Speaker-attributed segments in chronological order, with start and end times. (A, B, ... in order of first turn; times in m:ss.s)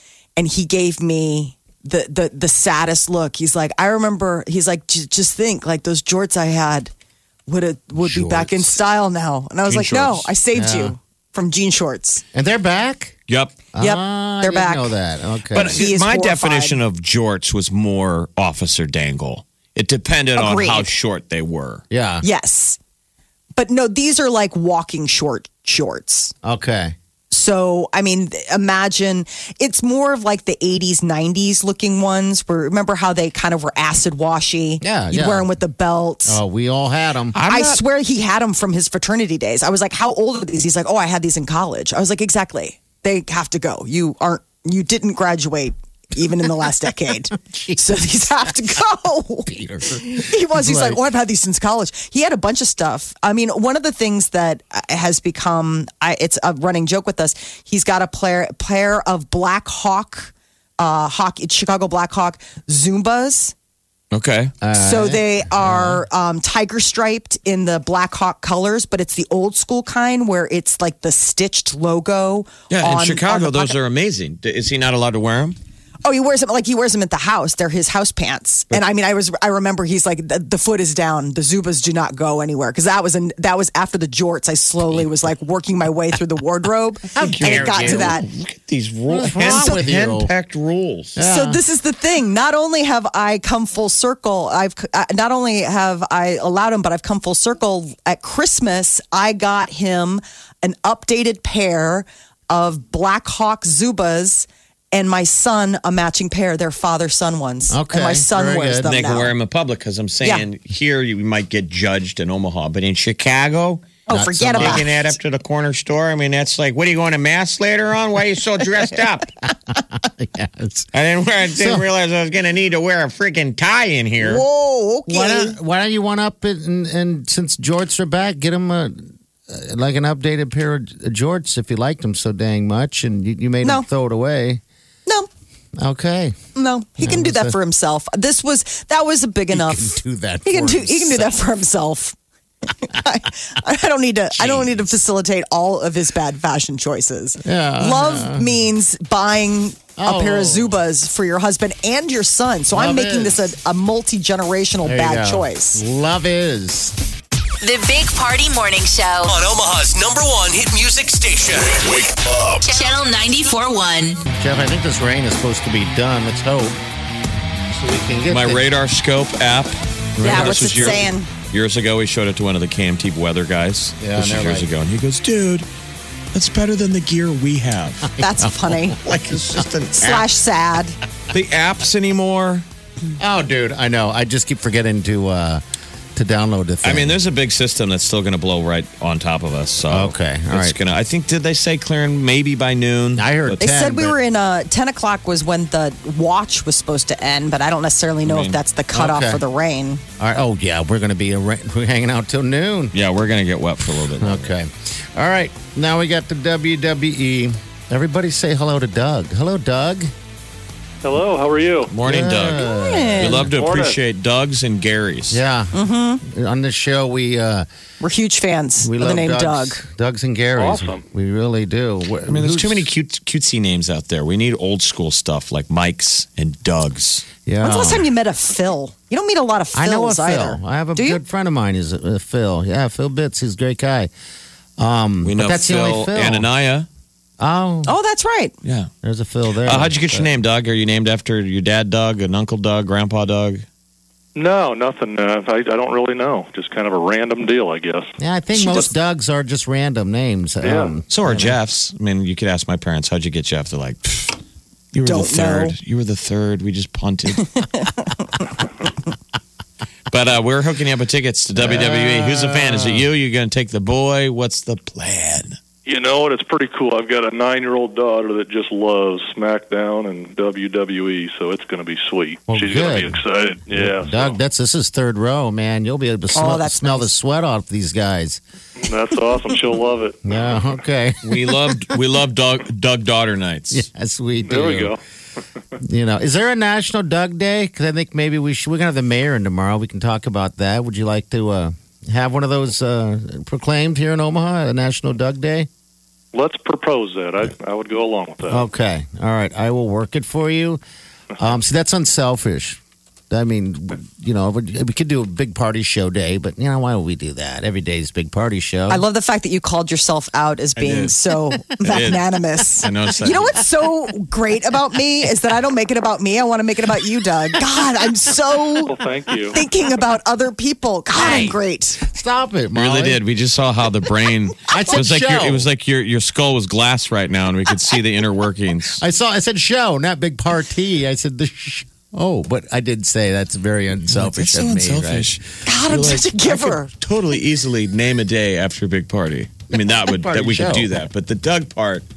0:00.4-0:06.9 A
0:07.5-0:12.2 A
0:08.0-0:08.8 B
0:09.7-0:10.3 C
0:10.5-0:11.0 B
0:12.3-0:13.2 B
0:13.3-0:13.6 C
0:13.7-0:15.9 B
0:13.8-0:15.0 A
0:15.5-0:16.8 A
0:15.5-0:21.8 C
0:20.4-0:20.9 A
0:21.9-0:22.2 B
0:22.2-0:22.8 A
0:23.5-0:26.3 A
0:26.4-0:26.9 B
0:27.3-0:36.4 A
0:34.8-0:35.5 B
0:36.2-0:37.4 B
0:37.3-0:37.8 C
0:37.4-1:03.5 A
0:49.5-0:51.0 B
1:04.1-1:04.5 C
1:04.6-1:06.0 B
1:04.7-1:13.8 A
1:12.7-1:15.6 C
1:16.0-1:28.3 A
1:27.1-1:28.2 B
1:27.2-1:31.2 C
1:29.1-1:30.3 B
1:29.4-1:29.8 A
1:31.1-1:31.6 B
1:31.2-1:49.3 A
1:47.7-1:48.9 B
1:48.8-1:53.8 C
1:54.1-1:54.9 B
1:54.1-1:55.0 A
1:54.6-1:59.3 C
1:59.7-2:00.9 B
2:00.9-2:04.4 C
2:01.5-2:01.8 B
2:04.2-2:05.6 A
2:05.1-2:14.6 B
2:15.8-2:16.4 B
2:16.5-2:35.8 A
2:17.0-2:17.6 B
2:19.5-2:21.4 B
2:24.4-2:24.8 C
2:27.4-2:28.5 B
2:30.0-2:30.8 B
2:32.7-2:33.4 B
2:34.8-2:36.9 B
2:37.6-2:39.3 D
2:39.3-2:42.7 E
2:42.6-2:44.2 D
2:44.3-2:46.8 B
2:47.7-2:48.7 B
2:48.3-2:55.7 C
2:50.2-2:51.0 B
2:50.2-2:51.3 A
2:54.0-2:54.7 B
2:56.3-2:58.1 C
2:58.2-2:59.0 A
2:59.0-3:00.2 C
3:00.0-3:01.0 A
3:00.0-3:00.3 B
3:01.3-3:02.6 C
3:03.2-3:05.6 B
3:06.2-3:07.2 B
3:06.8-3:13.6 C
3:09.8-3:10.8 B
3:13.2-3:14.1 B
3:13.6-3:20.0 A
3:18.2-3:18.6 C
3:18.9-3:19.4 B
3:20.2-3:22.9 B
3:22.9-3:24.6 C
3:24.2-3:30.1 B
3:31.0-3:31.9 F
3:31.9-3:32.6 C
3:32.0-3:33.5 B
3:32.4-3:33.4 A
3:33.2-3:35.4 C
3:33.4-3:34.0 F
3:35.3-3:37.7 B
3:35.7-3:36.2 A
3:38.0-3:39.8 A
3:38.8-3:42.9 B
3:40.6-3:41.0 F
3:42.3-3:47.2 C
3:47.4-3:48.1 B
3:47.6-3:51.2 A
3:49.7-3:54.1 B
3:54.8-3:56.5 B
3:55.2-3:56.9 C
3:57.4-3:57.9 B
3:57.8-3:58.5 A
3:58.6-3:58.9 C
3:59.0-4:00.3 B
3:59.6-4:03.6 C
4:04.3-4:08.1 F
4:08.2-4:11.6 B
4:08.5-4:08.9 A
4:10.6-4:10.9 F
4:11.1-4:14.4 C
4:14.9-4:17.6 C
4:15.0-4:15.8 A
4:17.3-4:18.2 A
4:20.1-4:25.6 C
4:21.6-4:23.1 B
4:25.8-4:34.4 F
4:32.5-4:33.2 B
4:33.7-4:38.4 B
4:36.3-4:37.1 A
4:38.8-4:40.6 F
4:40.2-4:41.8 B
4:41.2-4:43.8 C
4:43.7-4:45.0 B
4:44.4-4:45.0 F
4:45.8-4:55.7 B
4:56.3-4:58.6 F
4:58.5-5:00.8 B
5:01.4-5:02.8 B
5:03.3-5:09.0 B
5:08.9-5:19.0 A
5:10.8-5:11.2 C
5:11.8-5:13.6 C
5:18.9-5:19.6 F
5:19.5-5:22.0 A
5:21.2-5:21.6 C
5:21.3-5:23.2 B
5:22.7-5:29.0 C
5:24.7-5:25.7 B
5:28.9-5:35.4 B
5:34.1-5:42.0 C
5:35.6-5:36.9 A
5:39.7-5:40.9 B